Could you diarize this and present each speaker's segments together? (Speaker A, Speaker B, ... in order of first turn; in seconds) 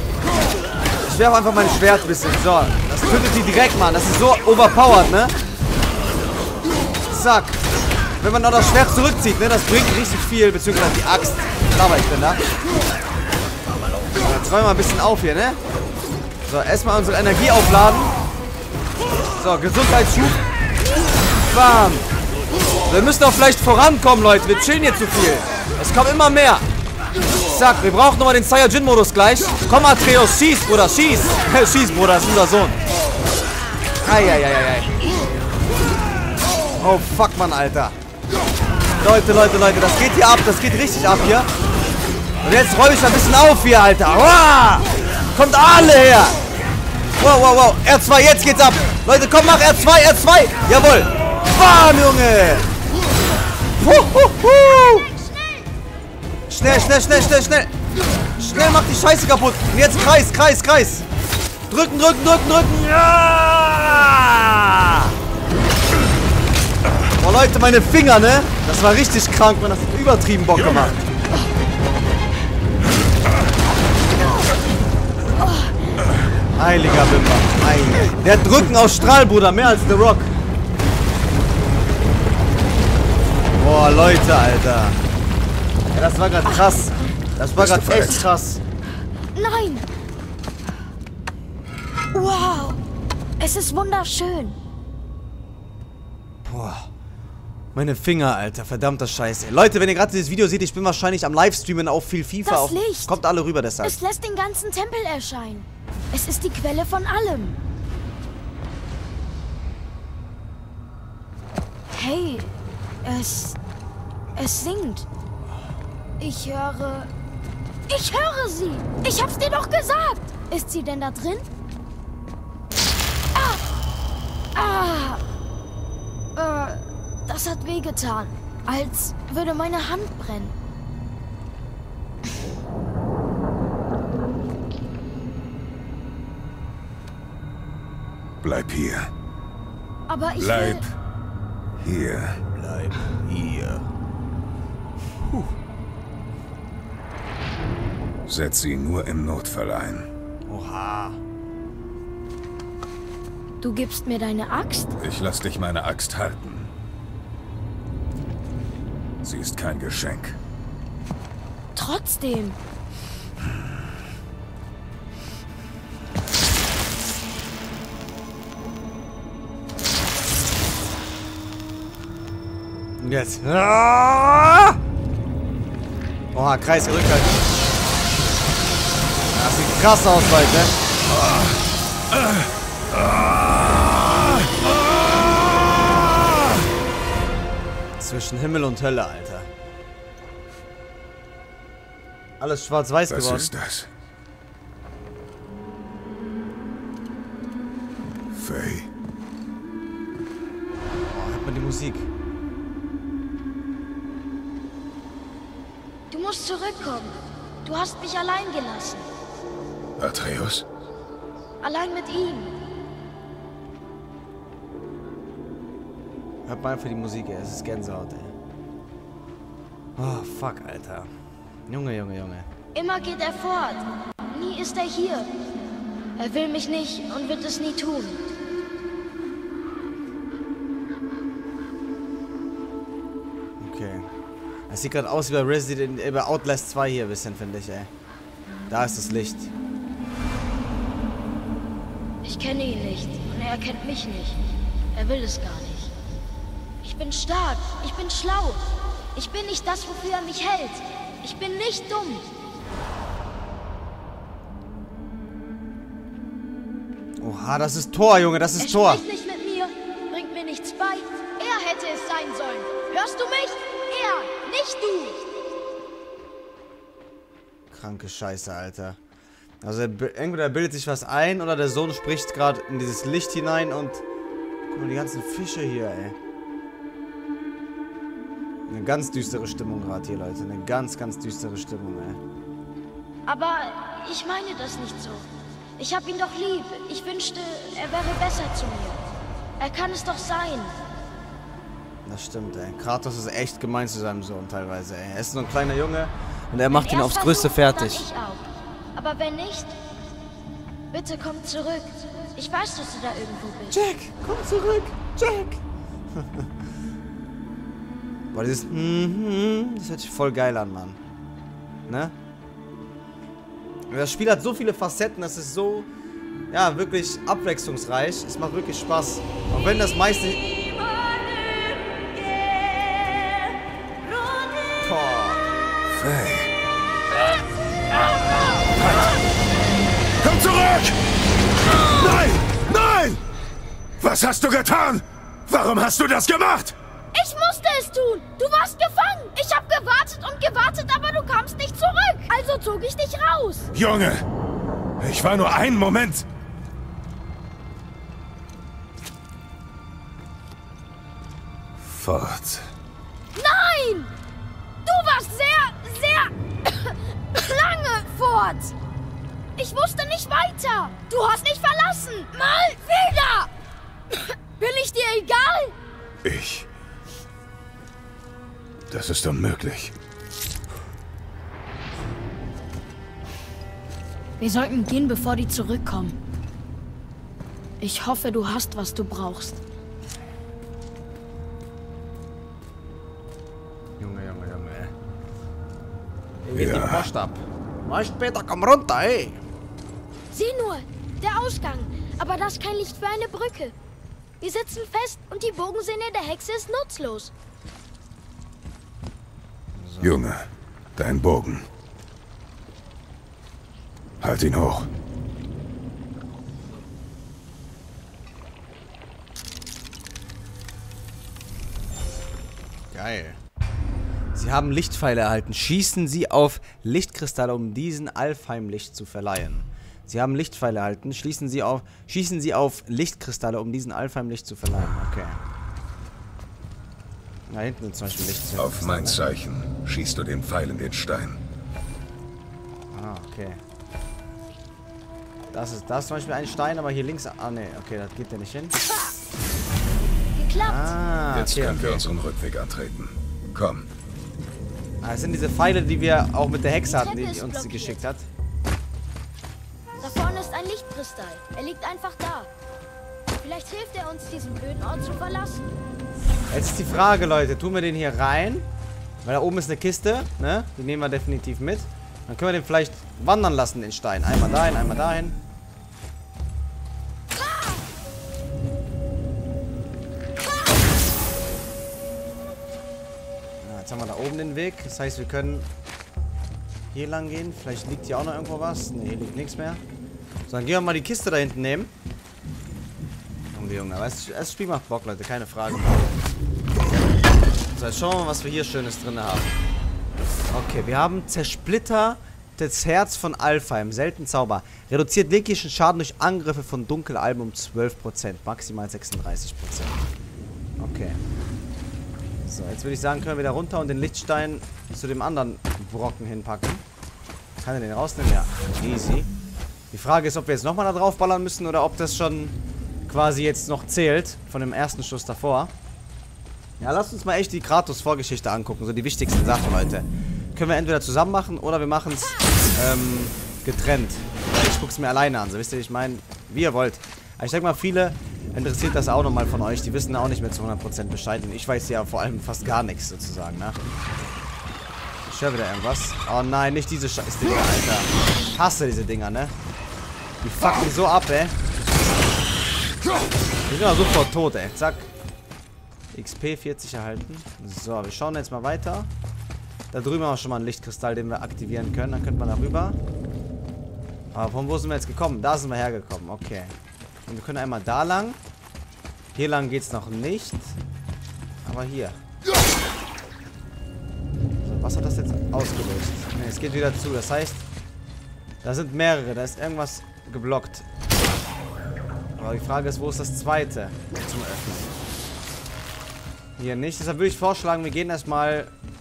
Speaker A: 1.0-5.3, 7.1-7.6, 8.2-12.4, 14.2-15.6, 16.5-18.1, 19.4-20.4, 21.5-22.1, 22.9-26.6, 27.4-32.8, 34.0-34.9, 36.8-38.0, 39.0-41.5, 42.4-46.4, 47.2-52.7, 53.8-55.1, 56.5-57.7, 58.4-61.1, 61.7-65.2, 67.2-71.0, 76.5-80.3, 83.6-85.0, 85.9-88.6, 96.4-96.9, 97.8-104.0, 142.5-143.9, 145.2-145.5, 150.5-151.2, 173.0-174.8, 176.3-177.4, 179.3-180.8, 188.0-189.5, 192.4-193.5, 201.1-202.1, 216.5-218.3, 220.0-221.1, 221.7-222.5, 233.6-234.1, 234.7-237.9, 238.7-239.5, 257.2-259.0, 267.7-269.0, 269.6-274.0, 274.7-276.2, 278.7-282.2, 292.1-298.1, 303.7-305.6, 306.1-306.5, 308.3-311.0, 311.9-312.1, 313.9-315.9, 316.5-320.5, 324.8-325.4, 384.0-384.9, 386.4-389.4, 399.8-400.2, 412.9-413.4, 414.3-425.4, 427.5-429.2, 432.9-433.6, 435.5-438.8, 440.6-442.1, 445.0-448.2, 450.0-450.5, 456.5-458.6, 459.2-465.4, 473.6-475.7, 476.9-479.8, 480.5-481.9, 483.5-486.0, 487.7-489.5, 490.5-500.1, 500.8-501.2, 502.4-506.8, 507.6-509.3, 509.9-512.6, 513.1-515.7, 516.8-533.8, 535.2-539.5, 540.4-541.5, 543.7-545.1, 546.1-549.1, 549.9-553.0, 554.3-556.8, 557.3-558.4, 559.4-560.8, 561.6-562.2, 564.6-567.6, 568.6-570.9, 572.4-574.9, 576.6-578.7
Speaker B: 54.8-55.7, 75.4-75.7, 89.3-89.8, 92.1-92.8, 93.4-94.6, 102.5-103.2, 103.8-107.6, 111.9-113.6, 114.4-115.1, 116.2-117.1, 117.9-121.5, 123.3-123.6, 124.5-125.2, 126.4-130.5, 140.1-140.9, 153.6-155.0, 161.8-162.6, 206.1-209.1, 211.6-212.6, 222.7-225.3, 226.2-228.2, 242.2-244.4, 244.9-245.9, 246.8-252.3, 258.6-265.2, 283.3-285.3, 285.8-289.0, 289.6-290.8, 296.7-298.4, 298.9-299.8, 300.9-303.8, 337.1-343.7, 353.4-354.1, 354.9-358.7, 359.6-363.5, 364.1-365.8, 374.4-376.2, 377.8-379.6, 390.3-393.7, 394.4-397.3, 440.4-440.9, 446.9-448.1, 450.0-452.5, 453.4-455.7
Speaker C: 70.6-71.0, 87.5-88.2, 138.4-139.1, 140.4-140.9, 141.8-142.4, 148.3-150.1, 155.0-156.7, 159.2-160.4, 193.1-193.9, 198.3-198.9, 210.0-210.7, 325.9-326.5, 328.8-329.1, 330.2-331.0, 331.7-333.2, 334.0-336.8, 343.7-344.2, 345.0-346.3, 351.8-352.7, 366.2-366.7, 368.9-369.9, 386.6-387.1, 400.0-401.7, 404.2-404.9, 428.6-431.4, 441.3-443.9